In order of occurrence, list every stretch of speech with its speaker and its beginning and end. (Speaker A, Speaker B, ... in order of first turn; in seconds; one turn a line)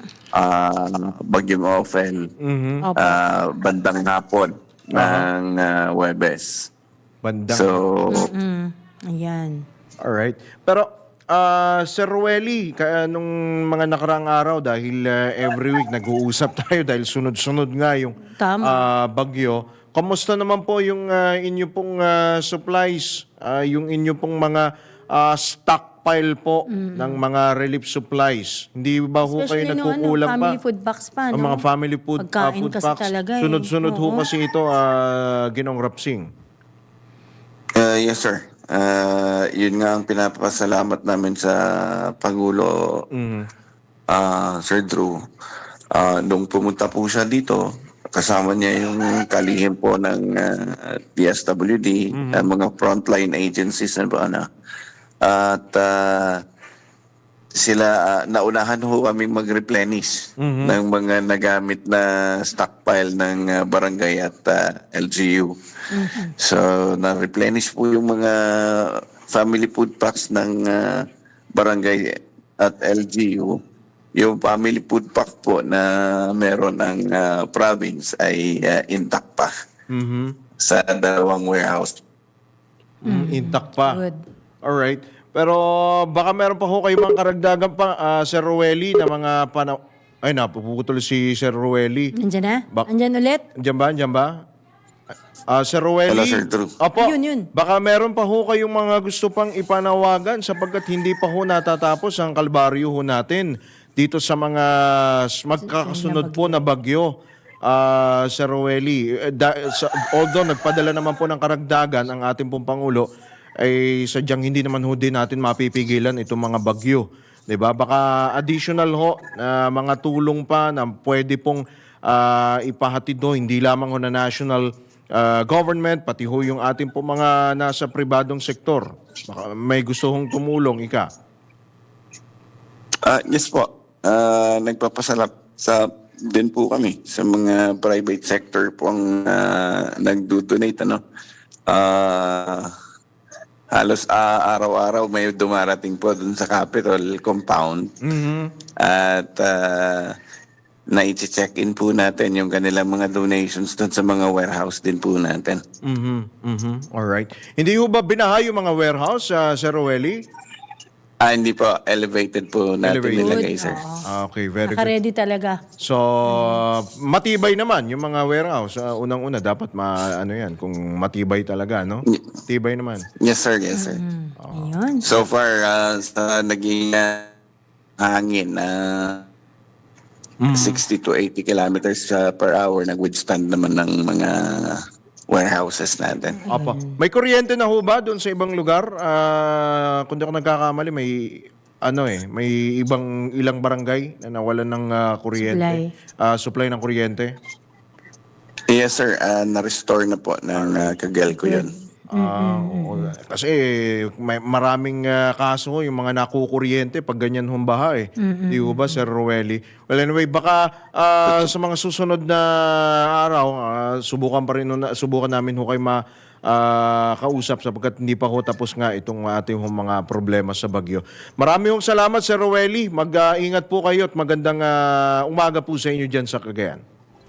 Speaker A: 0.3-2.3
Speaker B: 2.4-2.8
Speaker C: 2.8-3.2
Speaker A: 3.0-6.7
Speaker B: 4.9-5.3
Speaker B: 7.2-7.8
Speaker A: 7.5-8.3
Speaker C: 8.1-9.6
Speaker B: 10.0-30.6
Speaker C: 18.4-18.9
Speaker C: 26.7-27.2
Speaker C: 29.2-31.6
Speaker B: 31.3-36.3
Speaker C: 32.2-34.3
Speaker A: 37.8-43.0
Speaker B: 43.1-43.5
Speaker A: 44.1-45.2
Speaker A: 45.9-54.5
Speaker B: 52.1-52.5
Speaker A: 55.2-56.4
Speaker A: 57.5-65.5
Speaker B: 60.4-60.8
Speaker C: 65.9-66.3
Speaker A: 66.4-73.6
Speaker A: 74.2-79.5
Speaker B: 79.9-80.3
Speaker A: 80.6-82.0
Speaker B: 83.0-84.0
Speaker C: 83.1-84.2
Speaker B: 84.6-92.1
Speaker C: 92.2-93.4
Speaker B: 93.5-94.4
Speaker B: 95.5-107.1
Speaker A: 96.1-96.7
Speaker C: 97.0-97.5
Speaker C: 105.7-106.6
Speaker B: 107.7-113.1
Speaker B: 113.6-131.1
Speaker A: 133.1-141.0
Speaker A: 141.7-142.7
Speaker A: 143.7-147.9
Speaker B: 148.0-148.5
Speaker A: 148.8-150.2
Speaker A: 150.9-155.6
Speaker B: 155.8-160.2
Speaker A: 161.2-163.8
Speaker B: 162.8-163.5
Speaker C: 163.2-164.0
Speaker B: 164.0-164.9
Speaker C: 164.6-165.6
Speaker B: 165.8-173.1
Speaker C: 166.3-166.6
Speaker A: 173.2-174.0
Speaker C: 173.7-175.1
Speaker B: 174.4-174.8
Speaker A: 175.0-177.3
Speaker A: 178.0-179.2
Speaker B: 180.4-180.8
Speaker A: 180.5-184.8
Speaker A: 185.3-186.4
Speaker C: 186.3-187.0
Speaker B: 186.5-197.3
Speaker C: 195.4-195.9
Speaker A: 198.7-201.7
Speaker C: 201.3-203.1
Speaker B: 202.1-226.8
Speaker C: 208.2-209.0
Speaker A: 211.2-211.5